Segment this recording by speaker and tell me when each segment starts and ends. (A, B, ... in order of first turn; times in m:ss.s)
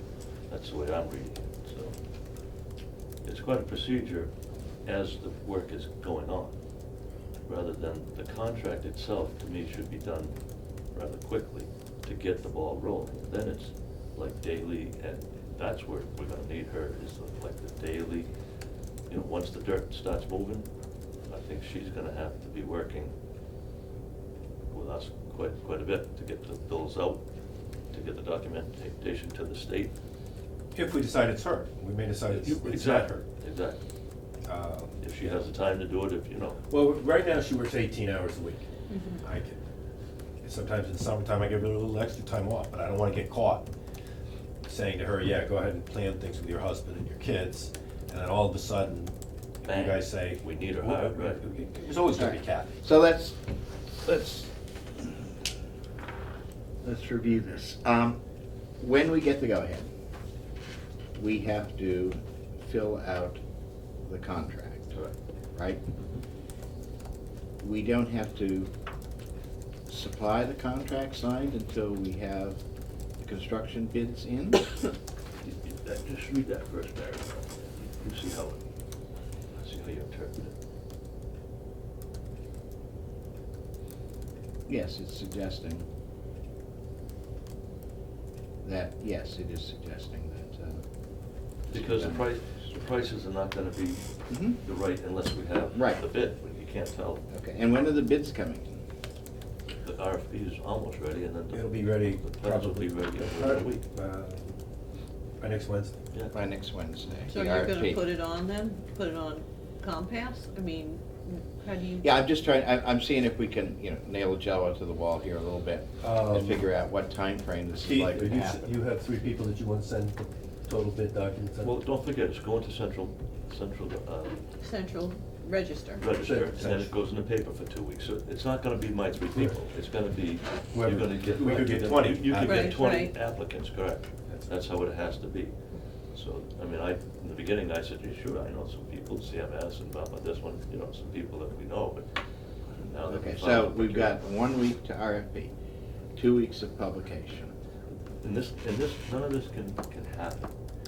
0:00.5-0:02.0 A
0:03.2-0:04.3 A
0:04.8-0:06.6 A
0:07.5-0:10.4 A
0:10.9-0:18.3 A
0:19.1-0:20.7 A
0:21.3-0:23.1 A
0:24.7-0:27.2 A
0:27.9-0:29.9 A
0:30.7-0:33.2 B
0:32.3-0:33.8 A
0:34.5-0:35.4 B
0:35.0-0:36.6 A
0:36.7-0:38.7 B
0:38.9-0:39.2 C
0:39.2-0:39.6 B
0:40.4-0:43.7 B
0:44.7-0:49.2 B
0:49.6-0:51.4 A
0:49.7-0:52.8 B
0:52.1-0:53.4 D
0:54.0-0:55.4 D
0:56.8-0:58.2 D
0:58.8-0:59.9 D
1:01.2-1:03.4 D
1:04.0-1:05.0 D
1:05.6-1:05.8 D
1:07.6-1:08.7 D
1:09.9-1:12.6 D
1:13.2-1:14.7 D
1:15.4-1:18.6 A
1:19.5-1:20.6 A
1:24.7-1:25.9 D
1:28.6-1:30.8 D
1:31.7-1:32.3 D
1:31.7-1:37.2 A
1:34.3-1:34.6 D
1:35.8-1:36.0 D
1:37.3-1:38.8 D
1:39.8-1:43.8 A
1:41.5-1:44.5 B
1:45.4-1:46.0 B
1:46.3-1:48.0 D
1:47.3-1:52.2 C
1:52.0-1:58.6 D
1:56.0-1:56.7 B
1:57.8-2:01.8 B
2:01.6-2:04.4 A
2:04.6-2:06.0 C
2:06.0-2:15.6 A
2:06.2-2:06.9 B
2:10.7-2:12.8 B
2:12.4-2:13.1 C
2:16.1-2:22.1 A
2:22.8-2:24.2 A
2:23.0-2:25.5 D
2:26.2-2:27.5 D
2:28.2-2:30.5 A